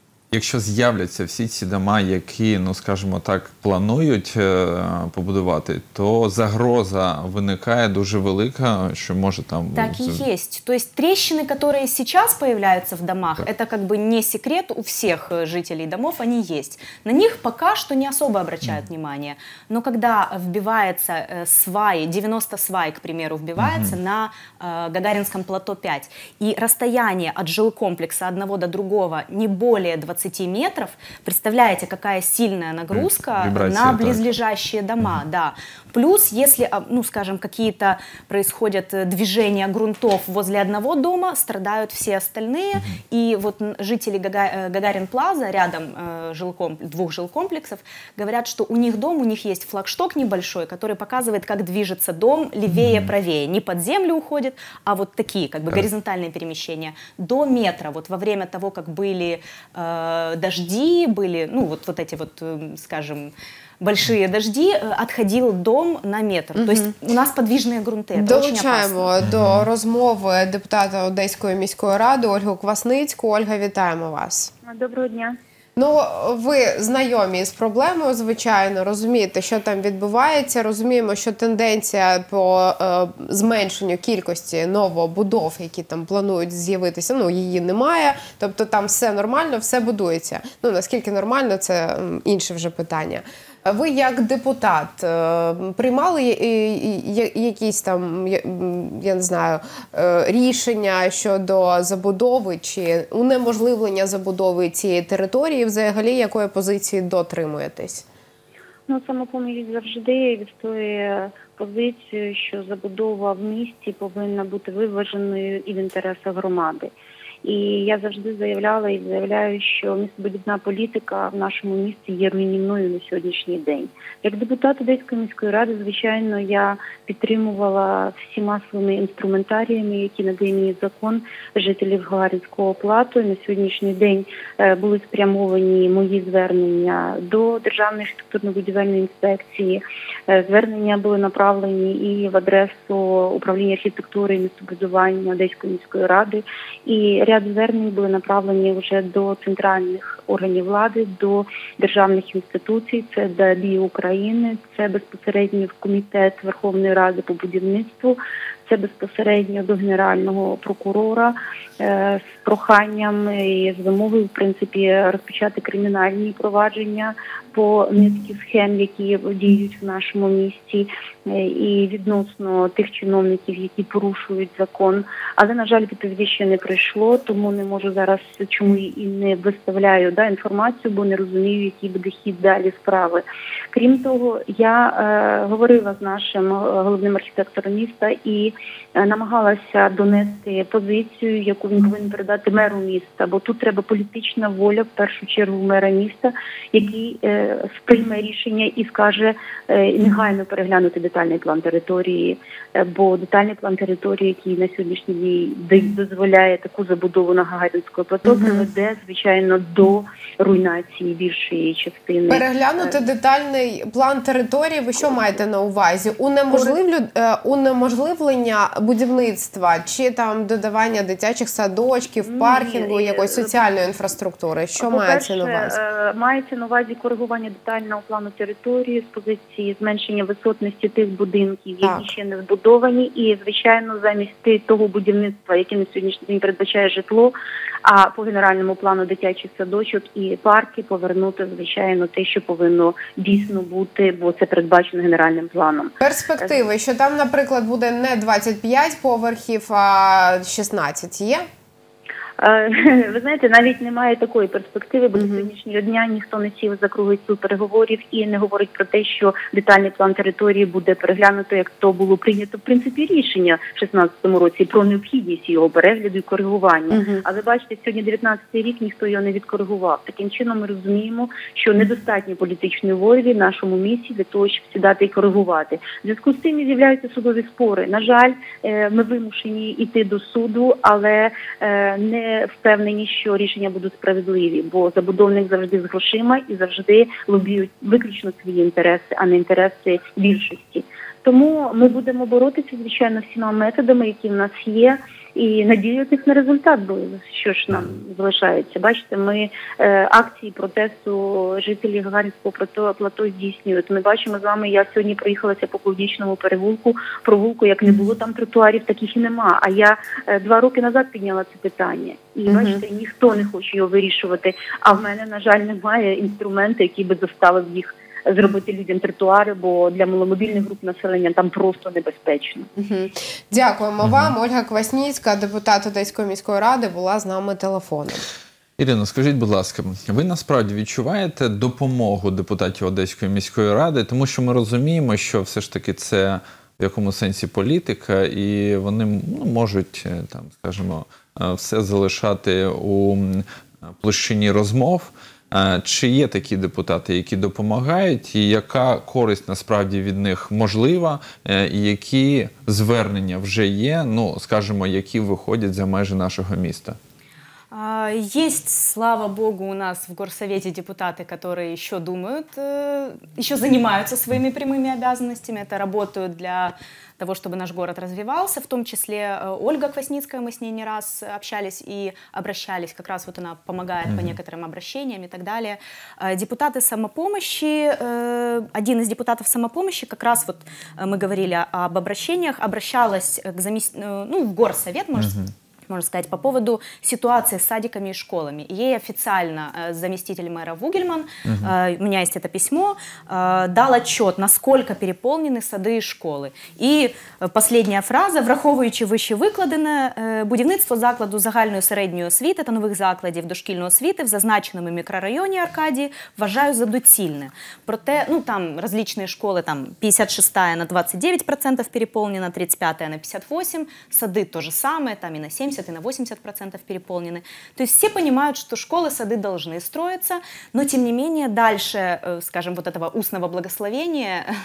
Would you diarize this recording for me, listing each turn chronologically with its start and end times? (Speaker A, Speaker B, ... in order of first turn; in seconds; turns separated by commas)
Speaker A: 0.3-10.2, Speaker B: 9.7-69.1, Speaker A: 23.6-23.9, Speaker A: 32.9-34.3, Speaker A: 52.7-53.1, Speaker C: 66.6-66.9, Speaker C: 68.2-74.5, Speaker A: 69.2-69.7, Speaker D: 74.7-75.3, Speaker C: 75.8-108.0, Speaker D: 108.9-116.9, Speaker D: 117.4-212.9, Speaker C: 208.2-208.7, Speaker C: 212.3-225.8, Speaker D: 222.2-223.5, Speaker D: 224.8-237.3, Speaker C: 231.8-232.1, Speaker D: 237.8-246.6, Speaker C: 246.0-251.4, Speaker D: 252.4-322.7, Speaker C: 255.1-255.5, Speaker C: 266.9-267.2, Speaker C: 312.5-312.8, Speaker C: 322.8-328.2, Speaker A: 324.0-324.3, Speaker A: 328.8-357.0, Speaker B: 357.7-385.4, Speaker A: 374.1-374.3, Speaker A: 385.1-385.4, Speaker B: 385.9-424.5, Speaker A: 391.4-391.7